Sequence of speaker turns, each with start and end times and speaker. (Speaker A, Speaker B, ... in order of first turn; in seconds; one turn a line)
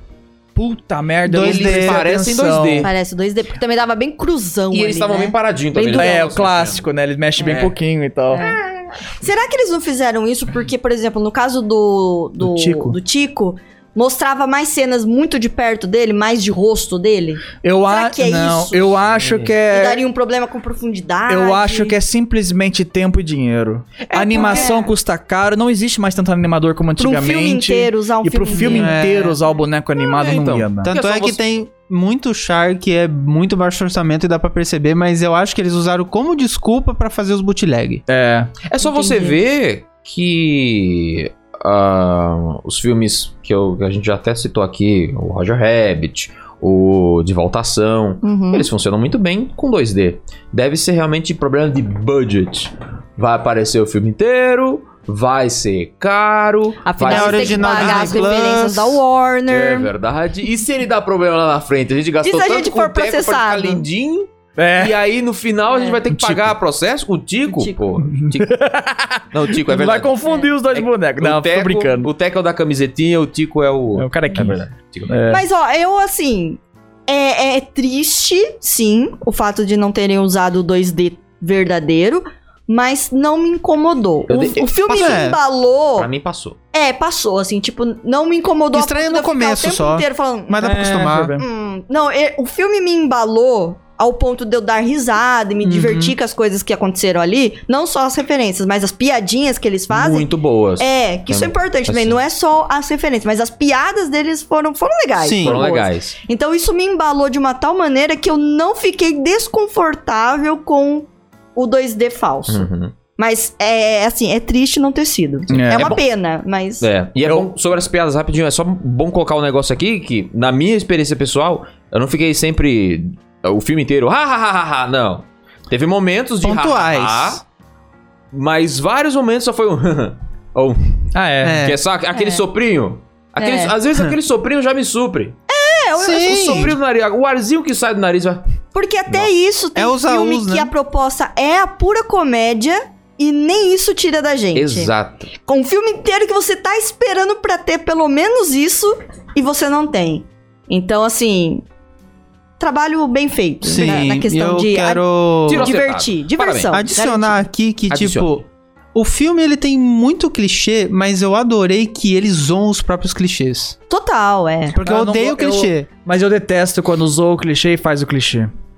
Speaker A: 0.5-2.9
Speaker B: 1.3-2.0
Speaker C: 1.3-2.9
Speaker D: 2.8-6.2
Speaker C: 4.7-6.9
Speaker A: 5.9-8.5
Speaker C: 7.4-7.7
Speaker D: 8.3-19.0
Speaker A: 12.4-13.0
Speaker A: 17.6-20.0
Speaker C: 19.1-19.5
Speaker D: 19.7-22.0
Speaker A: 21.3-30.9
Speaker C: 24.0-24.6
Speaker D: 24.1-24.9
Speaker D: 27.0-29.0
Speaker B: 28.5-29.4
Speaker C: 30.2-31.4
Speaker B: 30.8-38.0
Speaker A: 38.1-38.5
Speaker C: 38.6-58.2
Speaker D: 38.8-39.4
Speaker D: 48.2-48.7
Speaker D: 56.8-59.9
Speaker B: 57.0-59.0
Speaker C: 59.5-70.2
Speaker D: 62.2-63.8
Speaker A: 64.6-65.0
Speaker D: 65.7-66.0
Speaker A: 66.1-66.5
Speaker D: 67.5-67.8
Speaker A: 68.1-68.9
Speaker A: 69.5-72.1
Speaker C: 70.7-75.1
Speaker A: 74.0-75.4
Speaker D: 75.3-86.1
Speaker C: 84.3-85.3
Speaker B: 84.9-85.4
Speaker C: 86.0-86.6
Speaker D: 86.7-116.9
Speaker B: 88.7-91.4
Speaker A: 90.6-91.4
Speaker B: 95.6-96.1
Speaker C: 99.9-102.2
Speaker B: 105.2-105.6
Speaker C: 105.4-106.1
Speaker C: 112.5-112.9
Speaker A: 115.5-116.0
Speaker C: 115.7-116.0
Speaker C: 116.8-127.4
Speaker B: 126.4-127.4
Speaker C: 128.3-131.1
Speaker A: 131.1-131.7
Speaker B: 131.4-131.8
Speaker C: 131.6-135.3
Speaker D: 132.1-132.4
Speaker D: 133.4-133.7
Speaker D: 135.5-136.6
Speaker B: 136.0-136.7
Speaker C: 136.1-138.4
Speaker D: 138.7-151.6
Speaker B: 139.7-140.7
Speaker C: 144.5-145.3
Speaker D: 152.6-155.0
Speaker B: 153.6-155.7
Speaker C: 155.5-156.8
Speaker D: 155.6-157.4
Speaker B: 156.7-163.7
Speaker C: 157.9-158.3
Speaker D: 163.9-164.8
Speaker B: 164.7-165.9
Speaker A: 164.8-168.5